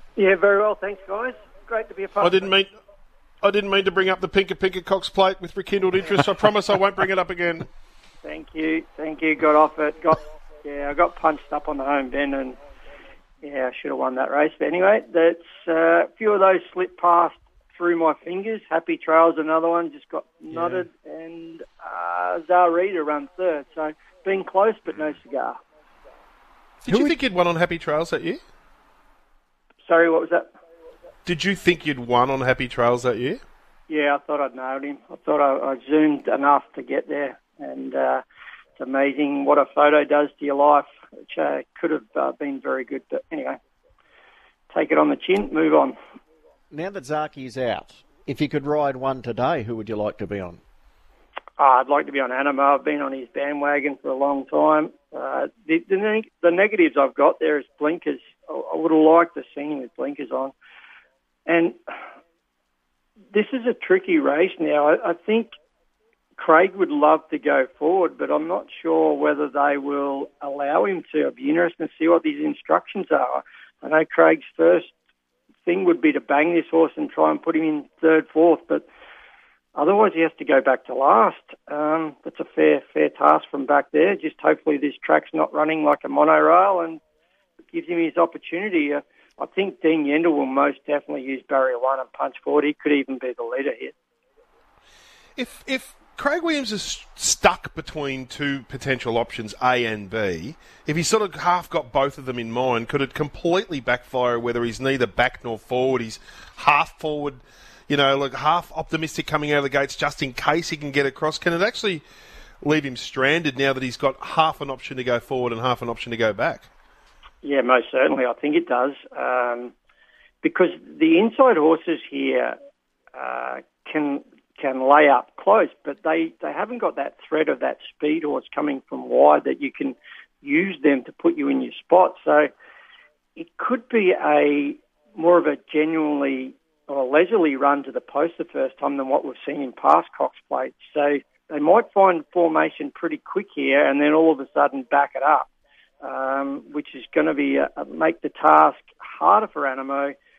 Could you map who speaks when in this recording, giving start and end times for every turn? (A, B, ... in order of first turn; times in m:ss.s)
0:00.2-0:02.6 A
0:02.2-0:02.7 B
0:03.4-0:07.7 B
0:08.2-0:12.6 A
0:13.4-0:25.6 A
0:26.8-0:28.4 B
0:26.9-0:27.1 C
0:29.8-0:30.5 A
0:31.2-0:33.4 B
0:33.9-0:38.2 A
0:38.8-0:43.6 A
0:44.7-0:45.9 A
0:46.7-0:50.6 C
0:51.6-1:00.5 A
1:01.5-1:01.8 A
1:03.3-1:05.5 A
1:06.4-1:14.9 A
1:15.6-1:18.8 A
1:19.7-1:27.0 A
1:27.7-1:33.9 A
1:35.4-1:52.0 B
1:52.6-1:56.7 B
1:57.4-1:59.7 A
2:00.4-2:02.6 A
2:03.1-2:12.5 A
2:13.4-2:25.5 A
2:26.0-2:30.1 A